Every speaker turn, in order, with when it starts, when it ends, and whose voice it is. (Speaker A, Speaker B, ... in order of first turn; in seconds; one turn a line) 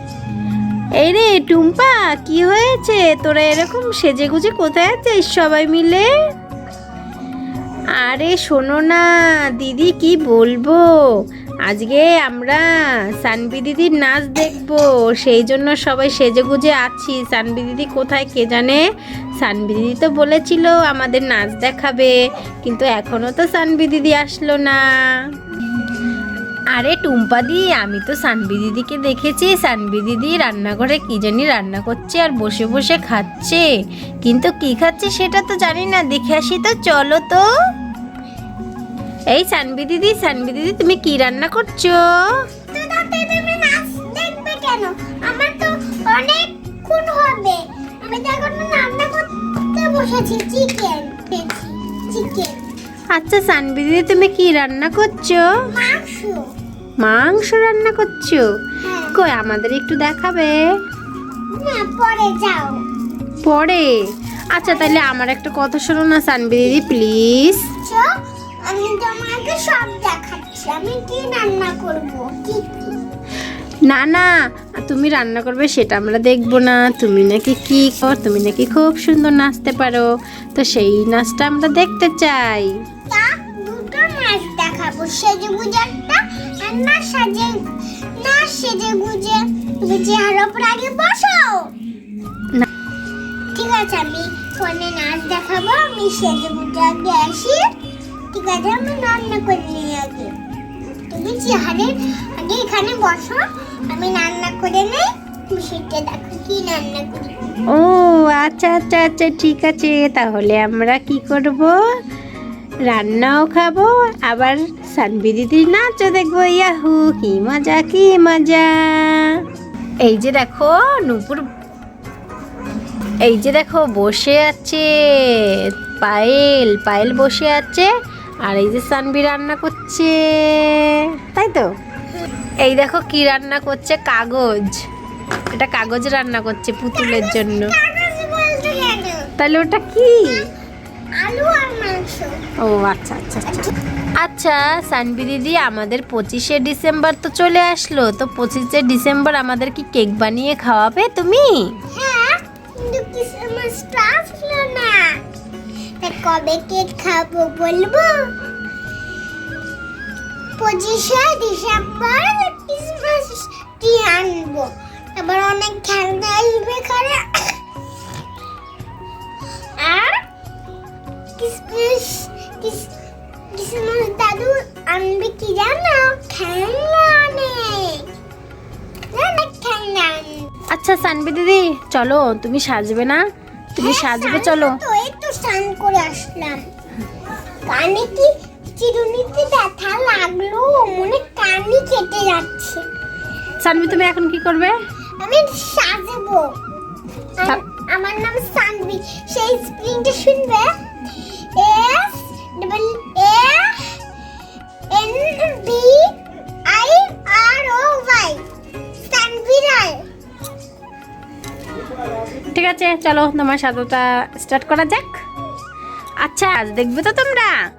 Speaker A: 1.0-6.1
Speaker A: 8.0-9.0
Speaker A: 9.6-10.8
Speaker A: 11.7-12.6
Speaker A: 13.2-18.8
Speaker A: 19.4-24.8
Speaker A: 26.8-33.6
Speaker A: 34.2-37.4
Speaker A: 39.3-42.0
Speaker B: 42.7-52.5
Speaker A: 53.1-55.4
Speaker B: 55.7-56.4
Speaker A: 57.0-58.4
Speaker B: 58.8-59.1
Speaker A: 59.1-60.6
Speaker B: 61.6-62.8
Speaker A: 63.5-63.9
Speaker A: 64.5-67.7
Speaker B: 64.6-65.0
Speaker B: 67.8-68.1
Speaker B: 68.7-73.0
Speaker A: 73.9-74.3
Speaker A: 74.8-82.7
Speaker B: 83.1-87.6
Speaker B: 88.2-91.7
Speaker B: 93.5-97.6
Speaker B: 98.3-100.3
Speaker B: 101.1-107.3
Speaker A: 107.7-111.8
Speaker A: 112.9-119.4
Speaker A: 120.0-121.5
Speaker A: 123.2-127.9
Speaker A: 128.4-131.7
Speaker A: 132.6-134.8
Speaker A: 135.5-137.7
Speaker B: 136.9-139.2
Speaker A: 139.4-140.4
Speaker B: 141.2-142.3
Speaker A: 142.6-143.6
Speaker A: 144.2-151.8
Speaker B: 151.9-155.1
Speaker B: 156.0-158.2
Speaker B: 160.6-167.5
Speaker B: 169.8-170.2
Speaker B: 171.4-172.9
Speaker B: 173.6-178.1
Speaker B: 179.1-180.4
Speaker A: 180.7-183.2
Speaker A: 183.8-184.8
Speaker B: 183.8-186.7
Speaker B: 187.7-192.8
Speaker A: 193.6-194.8
Speaker B: 195.2-196.5
Speaker B: 197.4-200.7
Speaker B: 201.2-203.9
Speaker B: 204.9-206.1
Speaker B: 206.7-208.4
Speaker B: 209.1-210.0
Speaker A: 212.5-215.2
Speaker A: 216.2-217.6